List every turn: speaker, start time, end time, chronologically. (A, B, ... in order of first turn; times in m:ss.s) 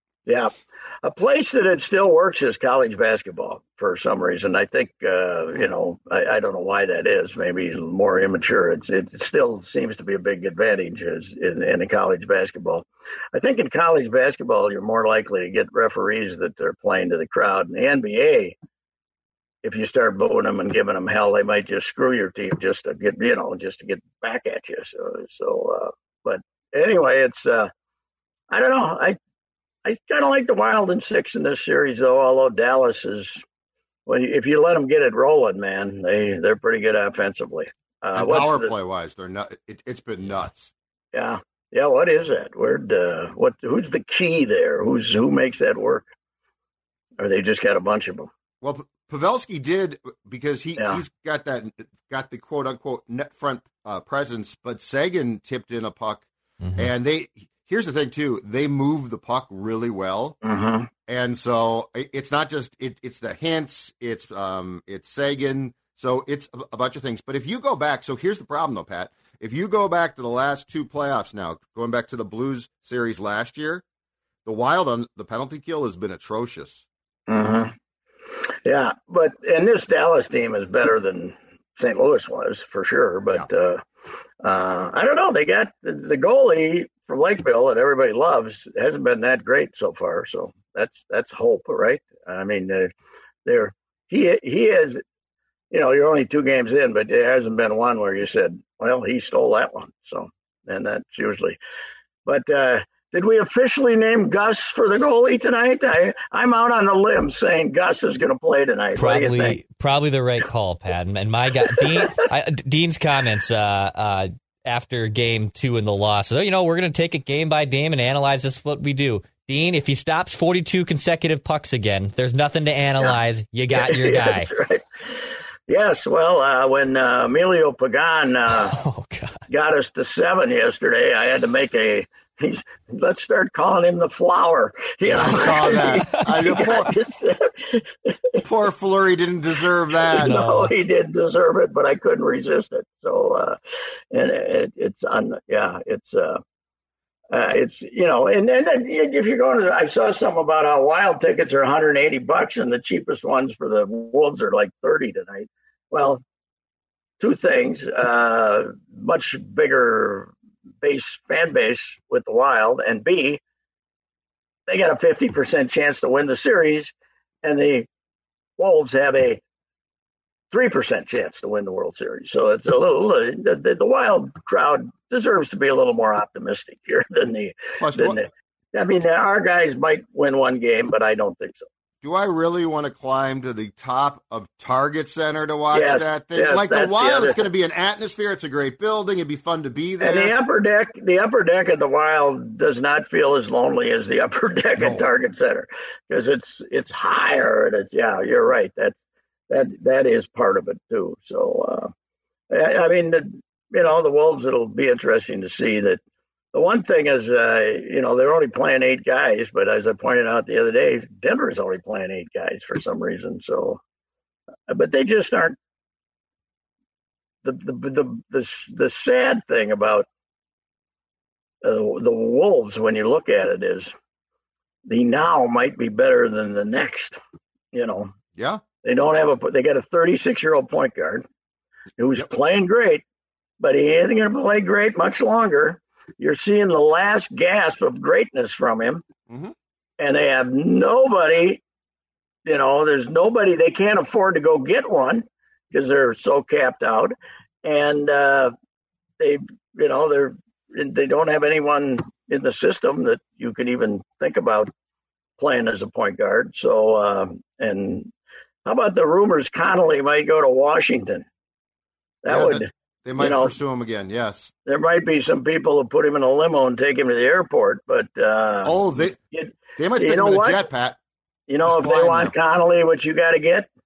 0:00.3-0:18.6 A
0:19.6-0:27.7 A
0:28.5-0:29.2 A
0:29.8-0:33.4 A
0:34.1-0:38.7 A
0:38.1-0:40.7 B
0:41.1-0:46.1 A
0:47.2-0:48.3 A
0:48.6-1:00.4 B
0:50.8-0:51.0 A
0:56.6-0:56.9 C
1:00.4-1:00.9 A
1:01.1-1:13.8 B
1:14.4-1:16.8 B
1:17.3-1:17.7 A
1:18.6-1:23.8 A
1:24.4-1:32.9 A
1:33.4-1:35.0 A
1:35.7-1:41.6 A
1:42.3-1:49.6 A
1:49.0-2:04.5 C
2:03.7-2:08.7 A
2:08.5-2:09.4 C
2:09.5-2:18.4 A
2:15.0-2:16.9 B
2:18.4-2:20.3 B
2:19.9-2:23.6 A
2:20.2-2:20.7 C
2:24.1-2:26.4 A
2:27.3-2:36.2 A
2:37.2-2:43.4 A
2:44.7-2:47.9 A
2:48.6-2:49.4 A
2:50.5-3:01.7 A
2:57.8-2:58.2 B
3:02.0-3:10.4 B
3:05.7-3:07.4 A
3:10.0-3:21.9 A
3:14.8-3:15.1 B
3:22.5-3:26.0 A
3:26.5-3:33.8 A
3:34.7-3:35.6 A
3:37.4-3:40.1 A
3:41.6-3:43.9 A
3:44.8-3:47.2 A
3:47.7-3:48.1 A
3:48.4-3:48.6 B
3:48.8-3:51.2 A
3:52.0-3:53.0 A
3:53.6-3:59.0 A
3:59.3-3:59.5 B
4:00.0-4:01.6 A
4:02.4-4:08.5 A
4:09.2-4:14.7 A
4:15.4-4:18.1 A
4:18.6-4:21.3 A
4:22.2-4:23.6 A
4:22.3-4:24.5 B
4:24.6-4:30.7 A
4:28.6-4:29.2 B
4:29.8-4:31.0 B
4:31.5-4:33.7 A
4:31.6-4:32.4 B